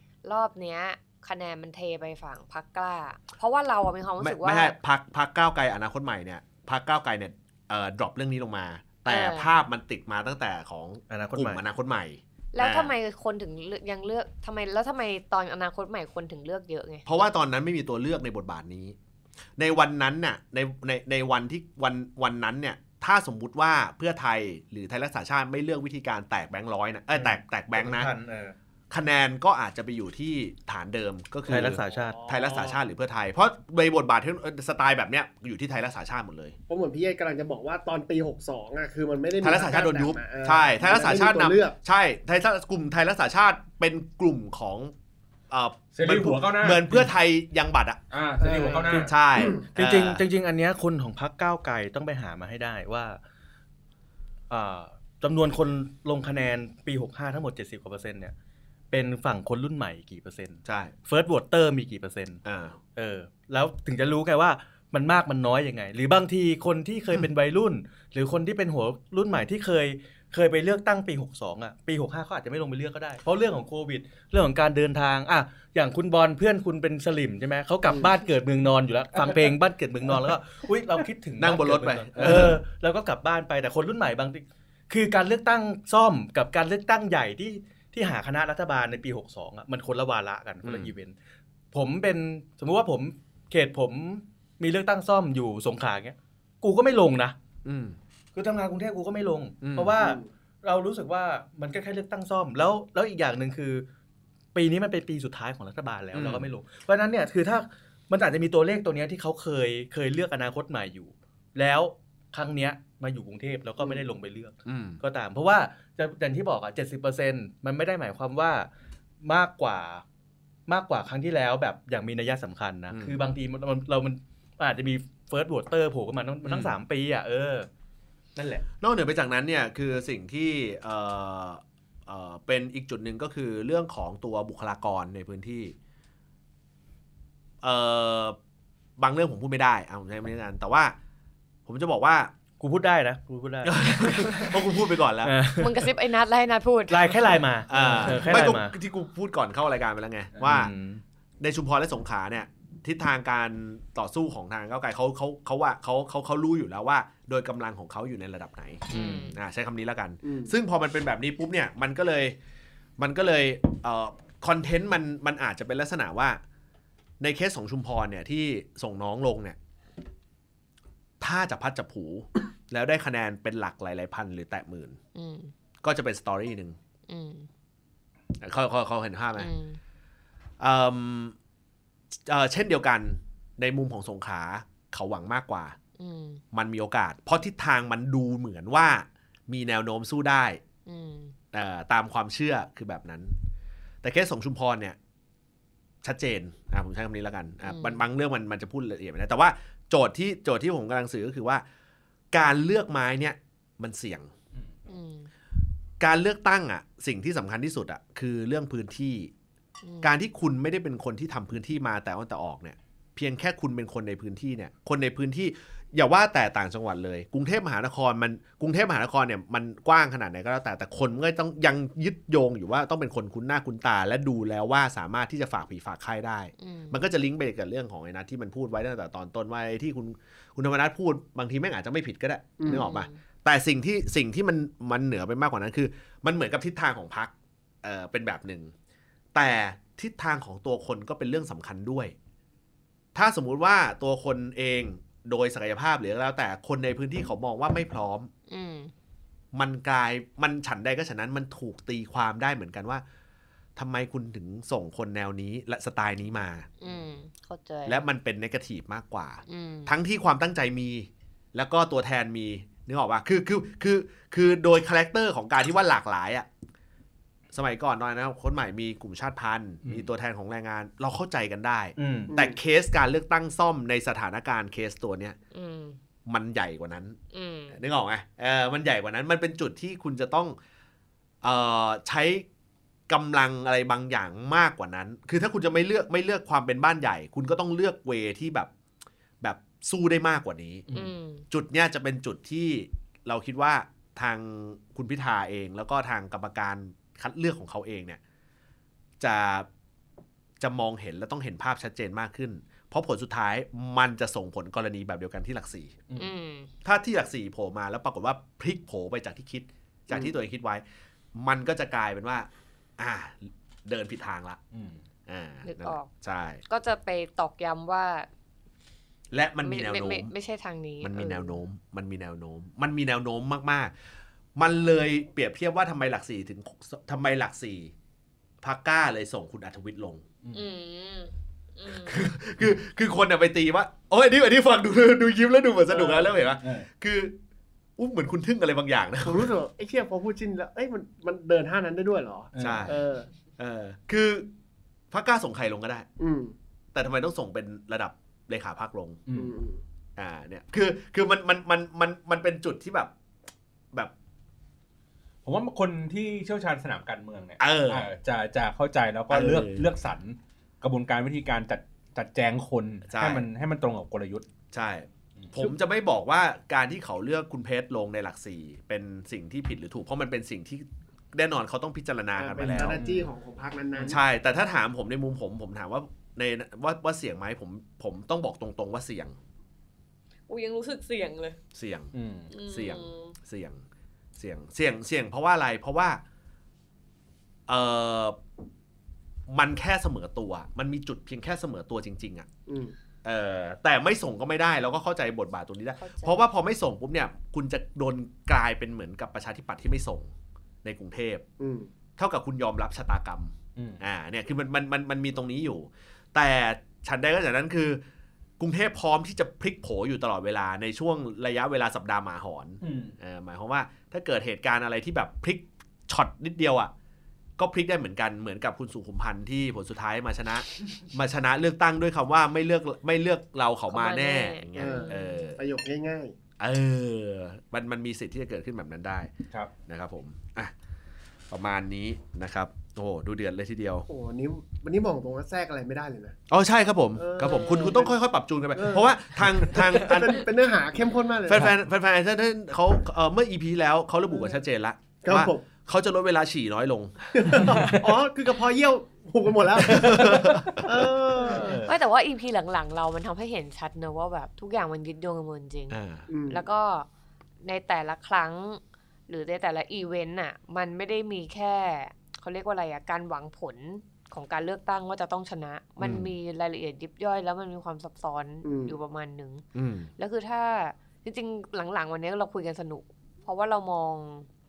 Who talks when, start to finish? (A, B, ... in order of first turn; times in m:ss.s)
0:00.2-0:04.8 A
0:04.2-0:12.9 B
0:09.1-0:09.5 A
0:11.1-0:11.6 C
0:12.5-0:17.0 A
0:17.0-0:19.0 B
0:19.6-0:28.1 B
0:27.1-0:28.5 C
0:28.9-0:36.6 B
0:31.5-0:32.4 C
0:31.9-0:32.7 D
0:36.7-0:41.7 D
0:39.4-0:44.9 B
0:45.5-0:50.2 B
0:45.9-0:47.1 E
0:48.1-0:49.1 E
0:48.4-0:49.6 D
0:49.7-0:53.2 C
0:54.5-0:58.3 C
0:58.9-1:02.4 C
1:00.6-1:00.9 B
1:02.4-1:02.8 B
1:03.0-1:31.1 C
1:21.4-1:22.6 B
1:30.6-1:30.9 B
1:31.7-1:37.3 C
1:37.6-1:38.0 B
1:38.3-1:43.8 C
1:39.6-1:40.0 B
1:40.0-1:40.3 D
1:44.5-1:58.7 C
1:46.1-1:46.5 B
1:54.6-1:55.0 B
1:59.2-2:00.0 C
2:00.7-2:07.7 C
2:02.9-2:03.2 B
2:06.4-2:06.8 B
2:08.4-2:08.6 C
2:08.8-2:15.7 B
2:17.6-2:18.4 B
2:19.0-2:20.9 B
2:21.6-2:22.3 B
2:22.6-2:24.6 C
2:23.6-2:25.3 B
2:25.2-2:25.9 C
2:25.6-2:27.2 A
2:26.9-2:28.7 C
2:27.7-2:30.7 B
2:30.4-2:31.0 C
2:31.4-2:42.4 B
2:38.9-2:39.4 A
2:38.9-2:39.3 C
2:40.2-2:40.5 D
2:43.0-2:46.4 B
2:47.2-2:49.6 B
2:51.2-2:55.0 B
2:55.1-2:55.5 A
2:55.8-2:56.8 B
2:57.1-2:57.5 A
2:58.4-2:59.5 B
2:59.4-2:59.8 A
3:00.6-3:01.4 B
3:02.1-3:05.8 B
3:06.0-3:06.4 A
3:06.5-3:10.6 B
3:10.8-3:11.3 A
3:11.5-3:13.4 B
3:14.0-3:15.0 B
3:16.0-3:21.6 B
3:17.6-3:18.0 A
3:22.3-3:24.3 B
3:24.9-3:25.3 A
3:26.0-3:29.3 B
3:29.8-3:30.1 A
3:30.0-3:58.7 B
3:46.6-3:47.0 A
3:52.6-3:52.9 D
3:52.7-3:53.2 A
3:59.3-4:02.1 B
4:03.1-4:08.3 B
4:08.5-4:08.9 A
4:09.5-4:13.0 B
4:13.8-4:16.7 B
4:16.8-4:18.0 A
4:17.8-4:26.5 B
4:19.5-4:19.9 A
4:27.5-4:35.4 B
4:32.0-4:32.3 C
4:32.3-4:32.6 D
4:35.5-4:36.0 A
4:36.2-4:37.2 B
4:37.3-4:37.8 A
4:37.7-4:40.6 B
4:41.4-4:42.4 B
4:43.1-4:48.7 B
4:49.4-4:50.9 B
4:50.9-4:51.4 A
4:51.5-4:58.2 B
4:59.2-4:59.7 B
5:00.6-5:06.0 B
5:06.2-5:06.7 A
5:06.8-5:10.8 B
5:11.3-5:14.6 B
5:14.7-5:15.0 E
5:15.2-5:16.6 B
5:15.6-5:16.1 A
5:16.7-5:18.3 A
5:19.3-5:20.3 B
5:19.6-5:21.6 A
5:21.0-5:23.9 B
5:24.6-5:27.9 B
5:28.6-5:30.2 B
5:30.5-5:32.2 A
5:31.8-5:37.4 B
5:35.9-5:36.3 D
5:36.6-5:36.8 E
5:38.0-5:39.5 B
5:39.2-5:43.3 D
5:42.5-5:43.0 E
5:42.6-5:43.0 B
5:43.6-5:44.5 B
5:45.1-5:46.1 B
5:46.2-5:46.5 D
5:46.9-5:49.2 B
5:49.3-5:49.6 E
5:49.3-5:49.8 D
5:50.2-5:53.1 B
5:55.4-6:04.4 E
5:57.6-5:58.1 B
5:59.3-5:59.9 B
6:03.1-6:03.4 B
6:04.7-6:13.0 B
6:12.4-6:14.2 D
6:12.6-6:13.3 E
6:13.9-6:19.4 B
6:20.5-6:21.6 A
6:21.7-6:22.1 B
6:22.1-6:22.5 E
6:22.5-6:23.3 A
6:22.6-6:23.8 B
6:24.4-6:26.2 B
6:27.7-6:28.4 B
6:29.5-6:32.5 B
6:32.7-6:32.9 D
6:33.2-6:40.3 B
6:36.0-6:36.4 A
6:40.8-6:41.4 B
6:41.6-6:41.9 D
6:42.2-6:48.0 B
6:43.8-6:44.0 E
6:48.6-6:56.9 B
6:52.8-6:53.1 E
6:57.6-7:05.6 B
7:03.9-7:05.5 A
7:04.8-7:06.4 D
7:06.6-7:09.3 B
7:09.9-7:10.7 B
7:11.5-7:14.1 B
7:14.1-7:16.4 D
7:16.5-7:20.4 B
7:17.2-7:18.1 D
7:18.7-7:21.7 D
7:21.5-7:27.7 B
7:25.2-7:25.6 D
7:27.3-7:31.8 D
7:27.6-7:27.9 E
7:29.8-7:31.9 B
7:31.8-7:37.1 A
7:35.9-7:36.3 B
7:36.3-7:36.6 D
7:37.6-7:49.6 A
7:46.0-7:46.3 B
7:48.6-7:49.0 D
7:49.7-7:50.1 B
7:50.2-7:54.5 A